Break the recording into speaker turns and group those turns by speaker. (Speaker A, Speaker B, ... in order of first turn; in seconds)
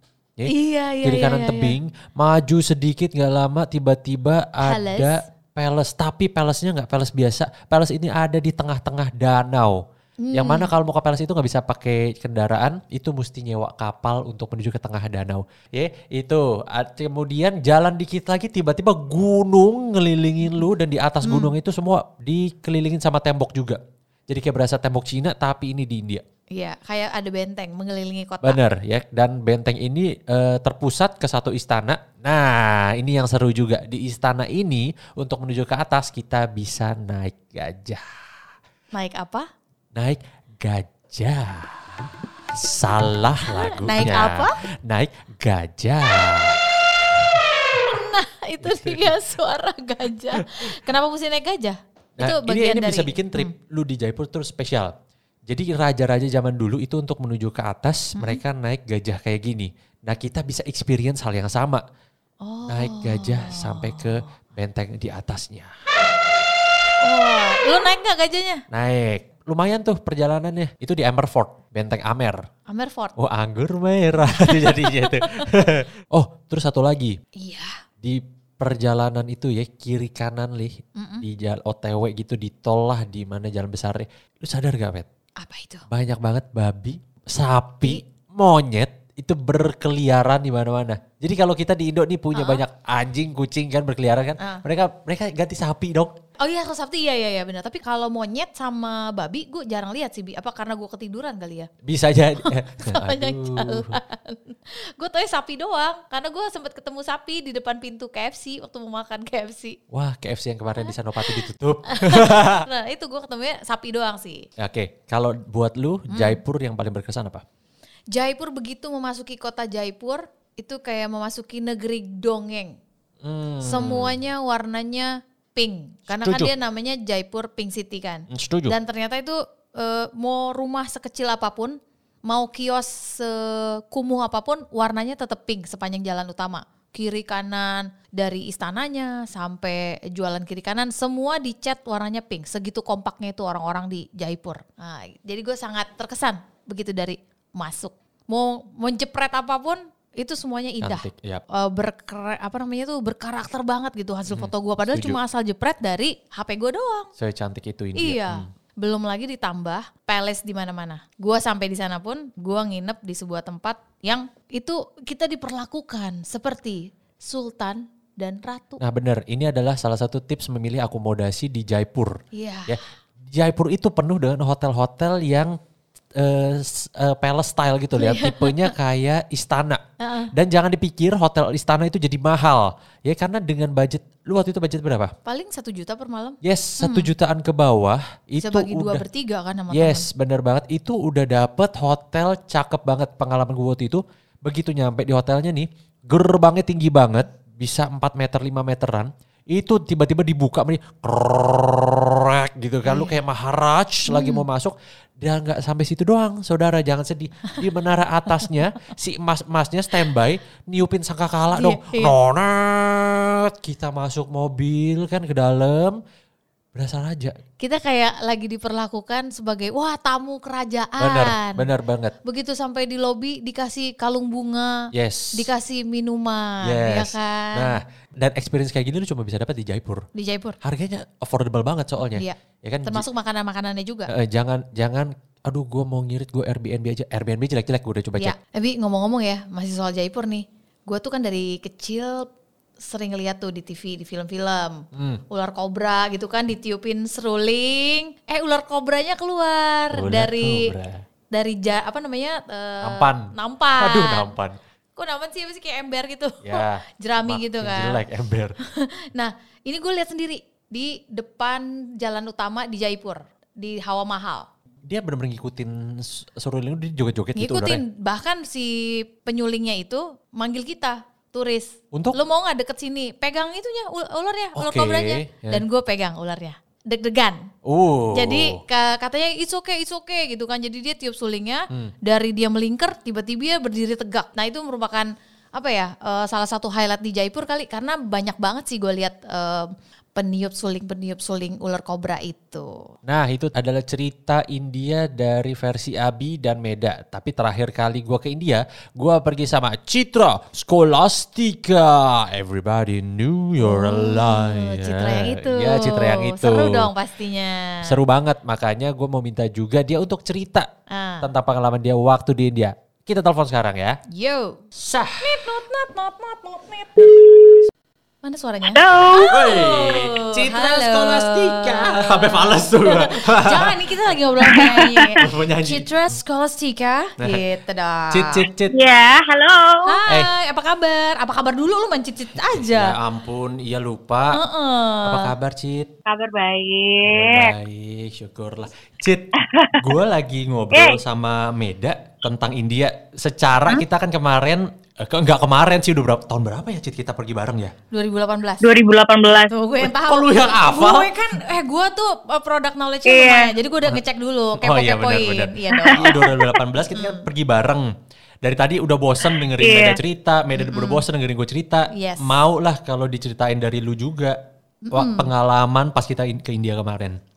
Speaker A: 0.5-1.8, 4.6-5.2, 10.2-10.7, 21.2-21.6, 26.6-28.6, 39.0-39.5, 43.6-44.5, 47.7-53.5, 58.2-58.4, 62.4-64.2, 67.0-68.6, 72.7-73.2, 74.7-75.5, 77.4-77.8, 81.0-81.2, 85.4-85.9, 92.3-92.6, 96.4-101.7, 102.4-109.8, 111.4-114.5, 116.1-116.4, 118.1-122.8, 123.6-151.1, 151.6-157.1, 158.0-168.8, 172.3-172.8, 178.0-178.7, 180.0-180.3, 185.3-187.1, 188.4-190.1, 202.8-203.2, 204.1-204.5, 211.5-212.2, 217.6-221.7, 222.2-227.8, 230.1-230.6, 232.2-234.1, 238.2-250.7, 251.3-254.4, 255.0-258.0, 258.7-264.5, 267.4-277.5, 278.1-292.7, 303.6-308.0, 310.9-311.3, 314.1-314.6, 315.2-317.5, 318.2-328.4, 329.9-333.0, 334.4-335.4, 347.9-348.6, 349.5-356.2, 356.9-357.3, 360.5-361.0, 361.9-362.4, 364.9-365.3
Speaker B: 1.0-9.8, 10.3-26.2, 28.4-38.0, 40.0-41.8, 42.5-46.6, 48.6-49.2, 50.4-50.7, 52.2-54.9, 55.5-61.8, 62.7-65.7, 68.7-72.4, 73.2-77.2, 78.0-85.1, 85.9-96.1, 101.8-104.0, 109.9-112.7, 114.6-117.4, 123.2-124.2, 126.1-126.5, 128.3-128.7, 150.8-151.4, 154.3-155.2, 157.2-158.5, 168.8-172.2, 172.7-175.6, 176.2-179.8, 180.3-185.1, 186.4-189.1, 189.7-216.0, 216.8-217.3, 221.0-222.2, 224.9-225.5, 226.6-230.1, 230.6-233.0, 234.1-238.3, 244.9-245.2, 249.9-251.0, 252.8-254.6, 256.4-258.5, 264.9-267.8, 274.6-275.6, 277.6-278.6, 293.1-306.9, 307.9-310.7, 311.2-314.0, 314.8-315.4, 319.1-323.9, 325.2-325.9, 328.1-328.8, 332.4-334.4, 335.1-335.9, 337.0-347.7, 349.8-351.1, 354.6-357.9, 358.4-364.4, 364.9-367.2
Speaker C: 318.6-319.4, 324.4-325.1, 328.7-330.0, 336.1-337.6, 339.4-339.8, 340.7-341.0, 348.6-349.5, 353.1-353.6, 355.7-356.6, 359.4-360.0